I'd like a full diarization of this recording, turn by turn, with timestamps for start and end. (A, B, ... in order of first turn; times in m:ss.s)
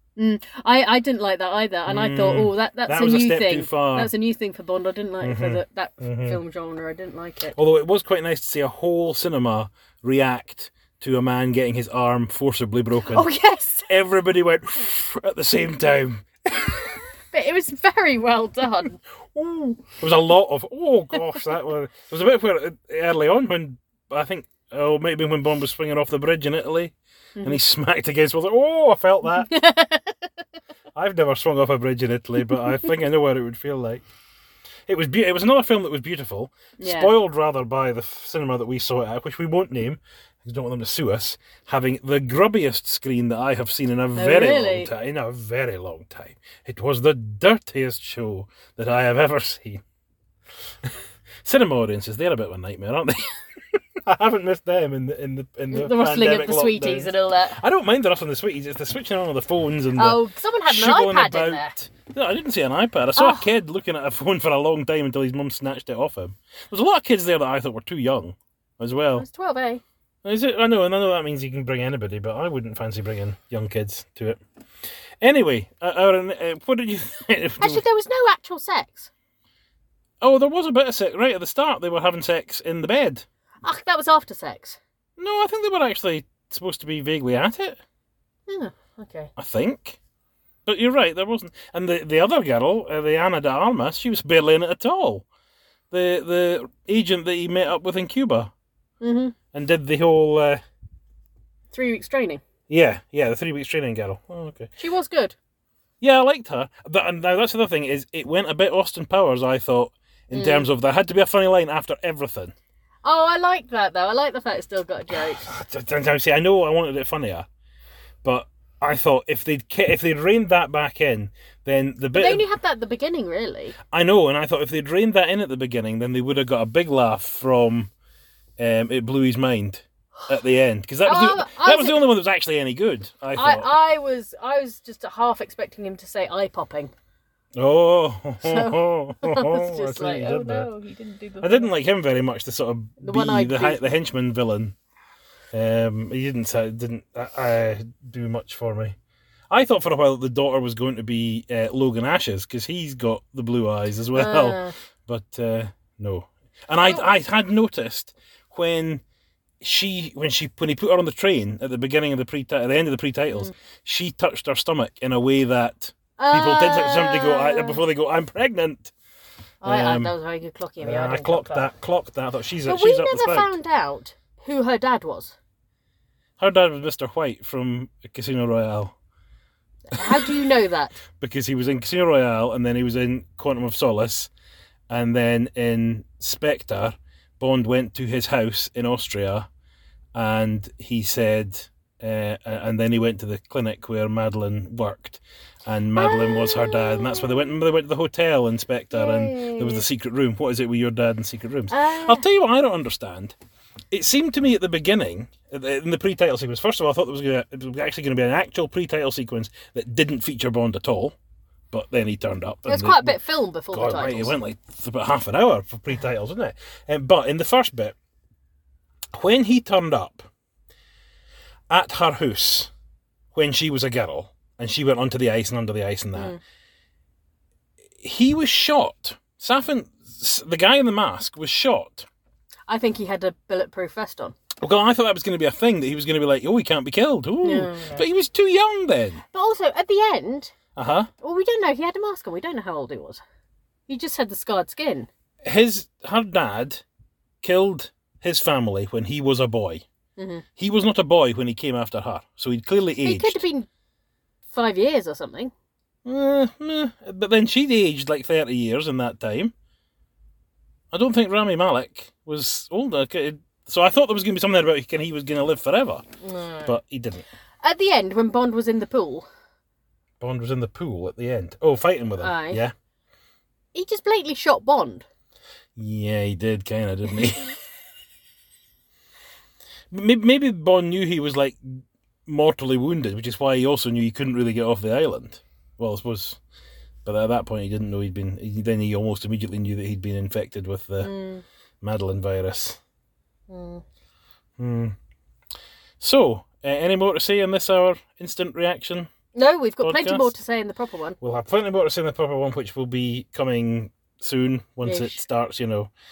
0:00.2-0:07.6 A
0:01.9-0:04.1 B
0:05.2-0:06.4 B
0:07.5-0:13.2 B
0:13.0-0:13.9 A
0:13.9-0:16.9 B
0:17.3-0:19.0 A
0:19.3-0:29.5 B
0:29.4-0:30.3 A
0:30.9-0:34.0 B
0:34.9-0:49.8 B
0:36.8-0:37.1 A
0:44.1-0:44.9 A
0:51.4-0:53.4 B
0:54.0-1:09.2 B
0:55.7-0:57.6 A
1:00.0-1:01.7 A
1:03.2-1:03.5 A
1:09.2-1:09.8 A
1:10.2-1:14.4 B
1:15.2-1:17.8 B
1:17.6-1:19.1 A
1:20.2-1:23.2 B
1:23.6-1:24.8 A
1:25.2-1:27.8 B
1:28.5-1:29.3 A
1:29.4-1:30.0 B
1:30.6-1:35.2 B
1:35.9-1:38.5 B
1:39.0-1:39.3 A
1:39.5-1:40.6 B
1:41.7-1:42.4 A
1:42.7-1:44.7 B
1:44.8-1:45.4 A
1:46.0-1:52.5 B
1:50.3-1:50.7 A
1:53.0-1:55.5 A
1:55.1-1:57.5 B
1:58.2-2:02.4 B
2:02.1-2:03.8 A
2:03.9-2:07.9 B
2:08.6-2:13.7 B
2:11.0-2:12.0 A
2:13.3-2:16.9 A
2:17.6-2:20.7 B
2:18.4-2:21.7 A
2:21.4-2:24.7 B
2:23.0-2:23.9 A
2:25.5-2:28.9 B
2:29.5-2:39.0 B
2:34.1-2:34.7 A
2:36.8-2:37.1 A
2:39.6-2:48.9 B
2:46.2-2:47.8 A
2:49.6-2:51.7 A
2:49.6-2:50.1 B
2:50.8-2:53.5 B
2:52.6-2:55.4 A
2:56.4-2:58.9 B
2:59.9-3:01.0 A
3:01.2-3:04.3 B
3:04.9-3:09.5 B
3:10.1-3:23.4 B
3:16.0-3:17.6 A
3:18.9-3:19.8 A
3:21.7-3:22.2 A
3:23.9-3:31.2 B
3:31.7-3:33.2 B
3:32.6-3:34.4 A
3:33.7-3:38.0 B
3:39.1-3:40.2 B
3:41.7-3:42.7 B
3:43.3-3:46.4 B
3:48.0-3:52.1 B
3:52.7-3:54.4 A
3:54.6-3:59.2 B
3:57.4-3:58.0 A
3:59.3-4:00.5 A
4:00.8-4:01.1 B
4:01.2-4:03.2 A
4:03.9-4:05.1 A
4:05.4-4:06.8 B
4:07.4-4:09.8 B
4:10.2-4:10.4 A
4:10.6-4:13.4 B
4:13.0-4:13.7 A
4:14.5-4:15.5 A
4:16.0-4:19.5 B
4:20.9-4:26.0 B
4:26.2-4:26.7 A
4:26.6-4:27.2 B
4:27.6-4:29.3 A
4:30.2-4:32.7 B
4:32.2-4:32.6 A
4:33.7-4:35.0 A
4:35.8-4:37.5 B
4:39.9-4:46.4 B
4:47.0-4:51.1 B
4:51.0-4:51.4 A
4:51.8-4:52.8 B
4:53.5-4:53.8 A
4:54.6-4:54.9 B
4:56.0-4:59.1 B
4:59.3-5:01.2 A
4:59.8-5:00.3 B
5:01.2-5:05.9 B
5:04.8-5:05.2 A